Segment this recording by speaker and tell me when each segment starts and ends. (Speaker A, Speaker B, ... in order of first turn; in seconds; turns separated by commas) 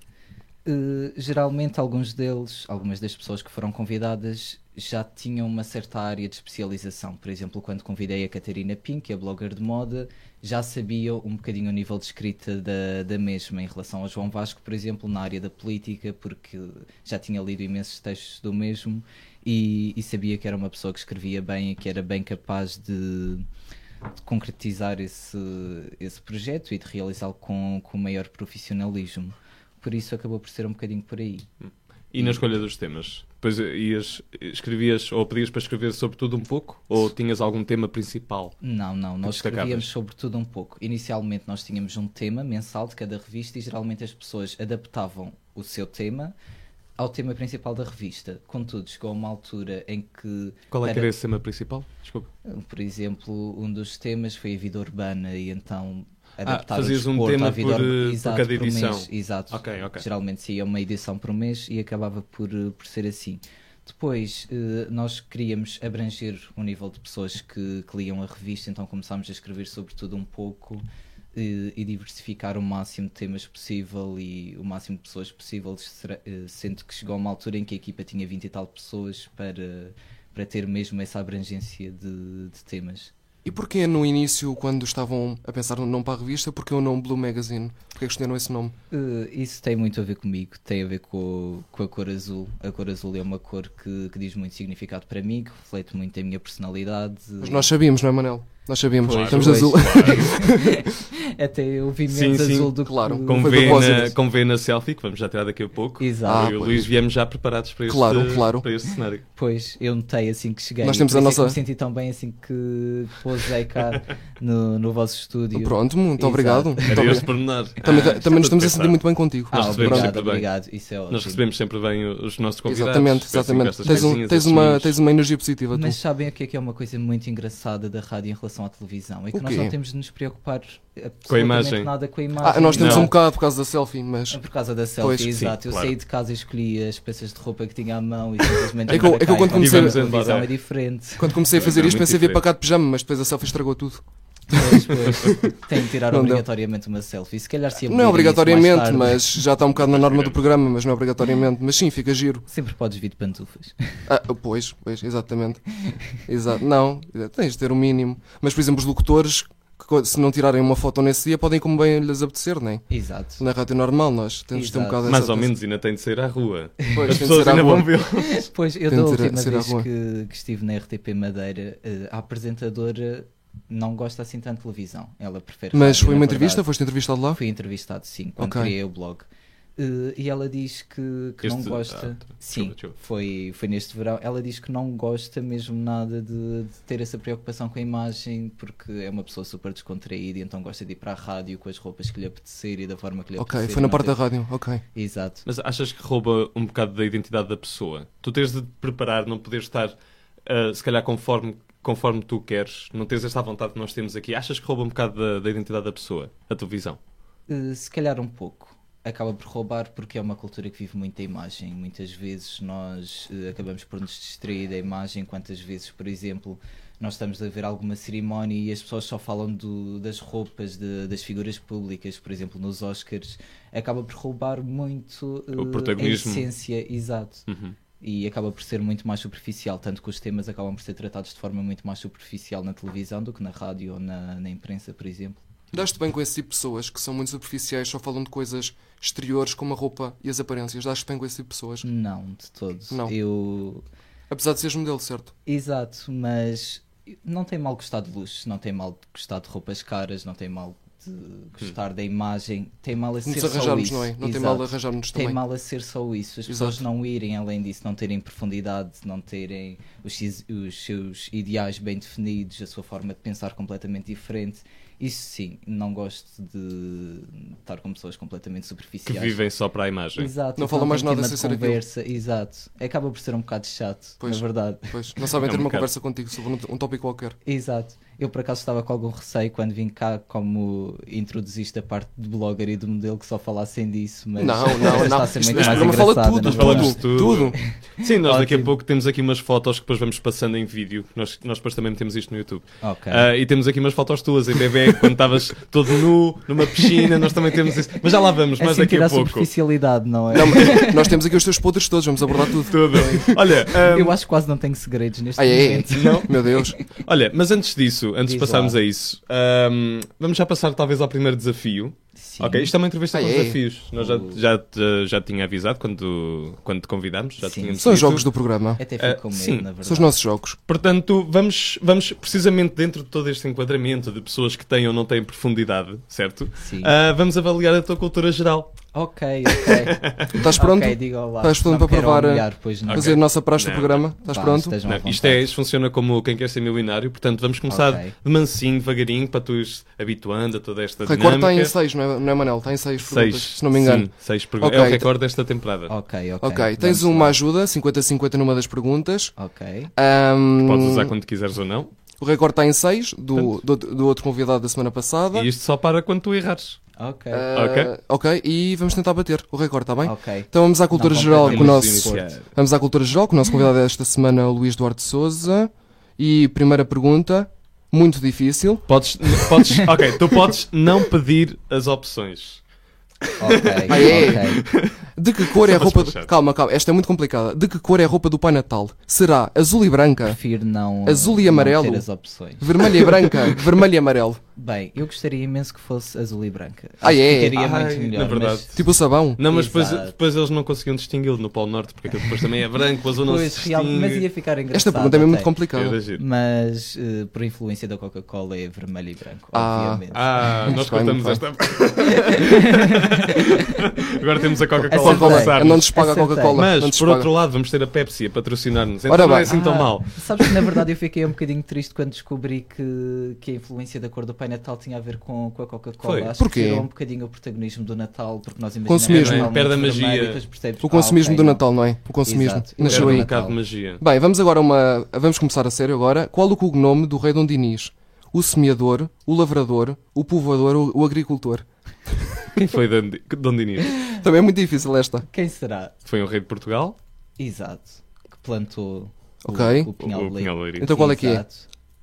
Speaker A: 0.6-23.4, Speaker A: 24.2-31.5, Speaker B: 31.6-38.5, Speaker A: 38.6-46.3, Speaker B: 39.2-39.9, Speaker A: 47.0-51.1, Speaker B: 50.7-52.3, Speaker A: 52.4-83.1, Speaker B: 56.5-60.0, Speaker C: 83.4-88.7, Speaker A: 88.9-97.7, Speaker C: 97.4-100.9, Speaker A: 99.0-104.1, Speaker B: 99.0-100.3, Speaker B: 102.1-109.2, Speaker C: 102.8-104.1, Speaker A: 106.0-106.6, Speaker C: 106.2-106.9, Speaker C: 107.9-108.7, Speaker A: 109.3-117.3, Speaker C: 110.8-111.6, Speaker C: 115.5-120.2, Speaker B: 116.9-119.0, Speaker A: 119.5-121.4, Speaker B: 119.5-120.5, Speaker B: 121.1-124.9, Speaker C: 122.7-126.0, Speaker A: 125.7-133.1, Speaker C: 129.3-129.7, Speaker B: 131.3-131.9, Speaker C: 132.4-134.4, Speaker B: 132.7-133.1, Speaker A: 134.3-141.6, Speaker C: 135.0-135.3, Speaker B: 135.3-135.9, Speaker C: 138.9-140.0, Speaker B: 138.9-140.5, Speaker C: 141.2-145.4, Speaker B: 141.5-142.4, Speaker A: 144.5-149.2, Speaker C: 146.1-146.4, Speaker C: 147.9-152.4, Speaker B: 149.8-150.4, Speaker A: 152.5-154.0, Speaker C: 154.1-155.6, Speaker C: 156.2-162.8, Speaker A: 162.9-163.4, Speaker C: 163.4-165.5, Speaker A: 164.5-165.1, Speaker B: 165.1-168.4, Speaker A: 166.8-167.2, Speaker C: 166.9-167.9, Speaker A: 168.2-176.6, Speaker C: 168.9-169.9, Speaker C: 175.7-177.4, Speaker A: 177.3-179.2, Speaker C: 178.4-178.7, Speaker A: 179.8-194.2, Speaker B: 181.4-182.9, Speaker C: 193.4-194.8, Speaker A: 194.9-195.4, Speaker B: 195.4-199.9, Speaker B: 200.4-207.0, Speaker A: 207.5-227.4, Speaker B: 225.6-226.5, Speaker B: 227.5-227.7, Speaker A: 228.0-235.4, Speaker C: 235.7-241.8, Speaker A: 241.8-243.8, Speaker C: 244.3-245.3, Speaker A: 245.4-269.4, Speaker C: 253.2-255.4, Speaker C: 256.5-256.8, Speaker B: 269.1-270.3, Speaker A: 270.1-274.9, Speaker C: 270.6-271.8, Speaker C: 274.2-277.4, Speaker B: 275.4-275.9, Speaker A: 277.4-288.7, Speaker C: 284.4-287.6, Speaker B: 284.8-299.5, Speaker A: 292.8-293.3, Speaker A: 296.8-297.3, Speaker A: 298.6-301.2, Speaker C: 300.3-303.3, Speaker B: 302.6-304.1, Speaker A: 303.7-306.8, Speaker C: 305.4-306.8, Speaker B: 305.9-318.3, Speaker A: 308.2-308.8, Speaker A: 312.2-312.7, Speaker C: 313.1-313.6, Speaker A: 314.0-314.4, Speaker A: 317.4-318.2, Speaker C: 317.8-318.8, Speaker A: 318.8-320.1, Speaker B: 319.0-319.6, Speaker C: 319.8-320.6, Speaker B: 320.7-328.8, Speaker A: 326.6-326.9, Speaker A: 328.9-333.2, Speaker B: 329.5-330.3, Speaker C: 330.3-334.7, Speaker B: 332.9-334.1, Speaker A: 334.2-335.5, Speaker B: 334.8-341.7, Speaker A: 337.7-338.1, Speaker C: 341.0-344.1, Speaker B: 343.0-345.9, Speaker C: 344.6-345.1, Speaker A: 345.9-347.4, Speaker C: 346.4-349.3, Speaker A: 349.4-349.9, Speaker C: 349.9-351.1, Speaker B: 350.6-351.9, Speaker C: 352.2-355.5, Speaker B: 355.3-356.8, Speaker A: 357.0-357.5, Speaker C: 357.3-368.9, Speaker B: 357.5-357.9, Speaker A: 360.0-362.4, Speaker B: 361.4-362.4, Speaker B: 368.9-372.6, Speaker B: 373.2-376.3, Speaker A: 373.4-374.6, Speaker C: 373.9-374.6, Speaker C: 375.1-380.4, Speaker A: 380.2-383.0, Speaker C: 381.0-382.0, Speaker C: 382.6-384.4, Speaker A: 384.6-388.8, Speaker C: 387.0-387.6, Speaker B: 387.5-388.8, Speaker C: 388.7-389.4, Speaker B: 389.4-394.3, Speaker A: 389.4-390.1, Speaker A: 393.2-395.5, Speaker C: 394.7-396.0, Speaker B: 395.7-396.2, Speaker A: 396.1-400.5, Speaker C: 399.5-400.0, Speaker B: 400.1-405.9, Speaker C: 400.6-401.4, Speaker A: 402.2-403.5, Speaker A: 404.9-406.7, Speaker C: 404.9-407.3, Speaker B: 406.5-410.4, Speaker C: 409.1-409.5, Speaker A: 409.5-421.6, Speaker B: 416.0-416.3, Speaker C: 416.4-416.9, Speaker C: 418.9-419.5, Speaker B: 419.1-420.4, Speaker C: 420.8-423.3, Speaker A: 422.2-423.6, Speaker B: 422.8-424.0, Speaker C: 424.0-432.5, Speaker B: 432.5-434.0, Speaker C: 434.1-435.3, Speaker A: 435.3-435.9, Speaker B: 436.0-437.0, Speaker A: 437.4-441.7, Speaker C: 439.4-439.9, Speaker B: 440.0-440.9, Speaker C: 440.8-441.4